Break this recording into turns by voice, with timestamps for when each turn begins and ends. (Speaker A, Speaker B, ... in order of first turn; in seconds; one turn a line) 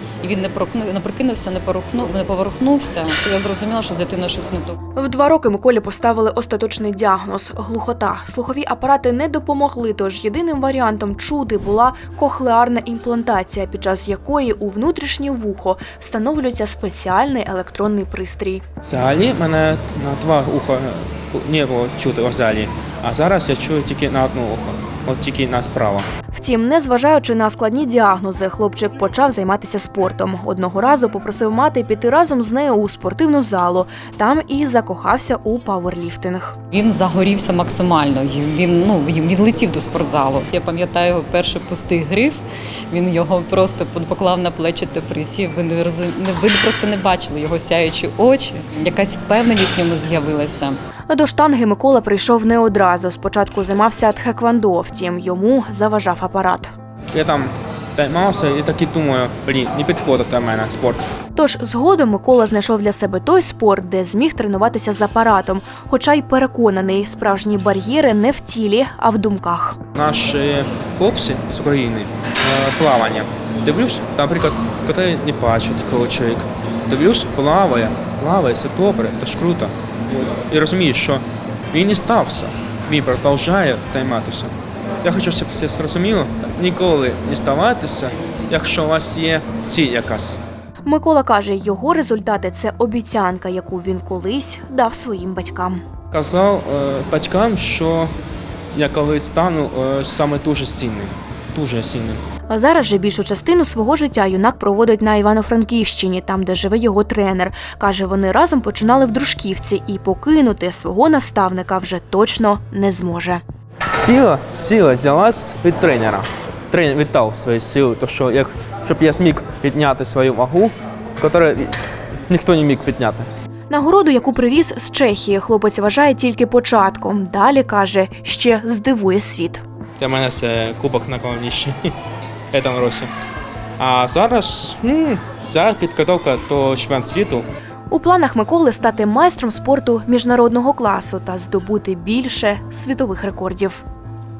Speaker A: 0.2-4.8
Speaker B: 4.9-18.6
Speaker C: 18.8-26.1
Speaker B: 26.3-36.5
Speaker A: 36.7-50.8
Speaker B: 51.1-56.7
Speaker C: 57.1-61.0
Speaker B: 61.3-69.8
Speaker C: 69.9-90.4
Speaker B: 90.8-95.8
Speaker C: 96.1-98.1
Speaker C: 98.7-102.2
Speaker B: 102.5-113.4
Speaker C: 113.9-121.8
Speaker C: 122.3-123.3
Speaker B: 123.7-129.6
Speaker C: 130.0-131.9
Speaker C: 132.5-133.1
Speaker C: 133.8-137.4
Speaker B: 137.9-143.8